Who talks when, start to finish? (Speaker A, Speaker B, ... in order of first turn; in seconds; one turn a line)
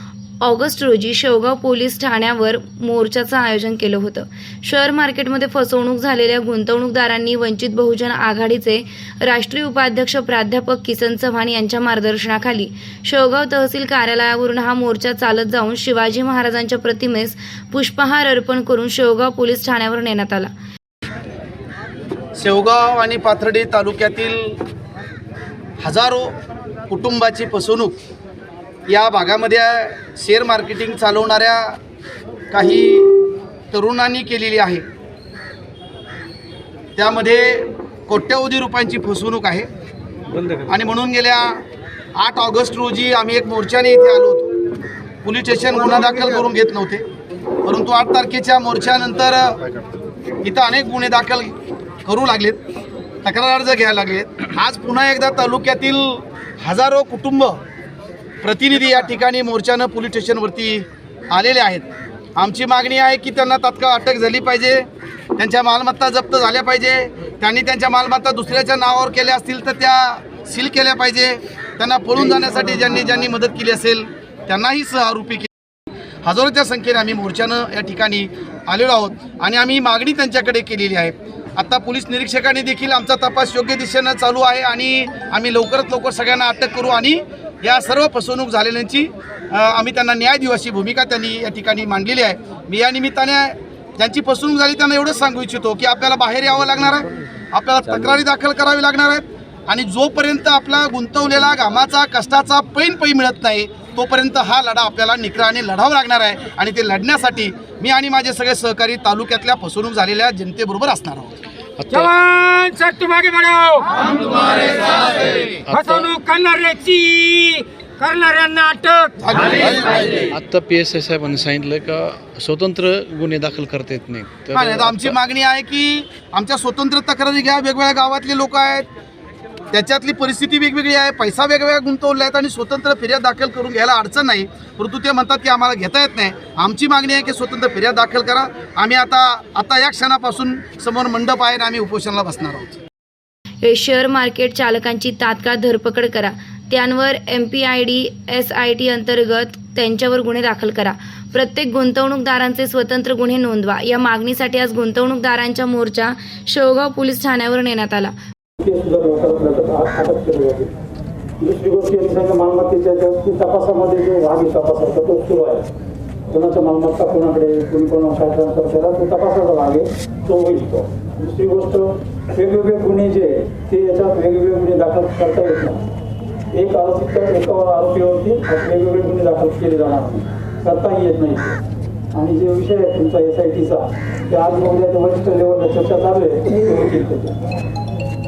Speaker A: 0.4-20.5
Speaker B: 22.4-24.6
Speaker B: 25.8-26.3
Speaker B: 26.9-28.0
Speaker B: 28.9-31.8
Speaker B: 32.5-33.2
Speaker B: 33.7-34.8
Speaker B: 37.0-39.7
Speaker B: 40.5-41.6
Speaker B: 42.1-44.6
Speaker B: 45.2-47.0
Speaker B: 47.6-49.6
Speaker B: 50.4-52.6
Speaker B: 53.2-57.6
Speaker B: 58.4-64.8
Speaker B: 65.4-75.5
Speaker B: 76.2-111.3
Speaker C: 111.8-112.1
Speaker D: 111.9-119.3
Speaker C: 115.4-116.1
Speaker B: 119.2-120.2
Speaker C: 120.3-125.2
Speaker B: 124.5-128.9
Speaker B: 129.7-142.8
Speaker A: 143.6-158.1
Speaker E: 158.6-160.7
Speaker E: 161.4-165.6
Speaker E: 166.3-175.8
Speaker E: 176.5-181.6
Speaker E: 182.1-187.3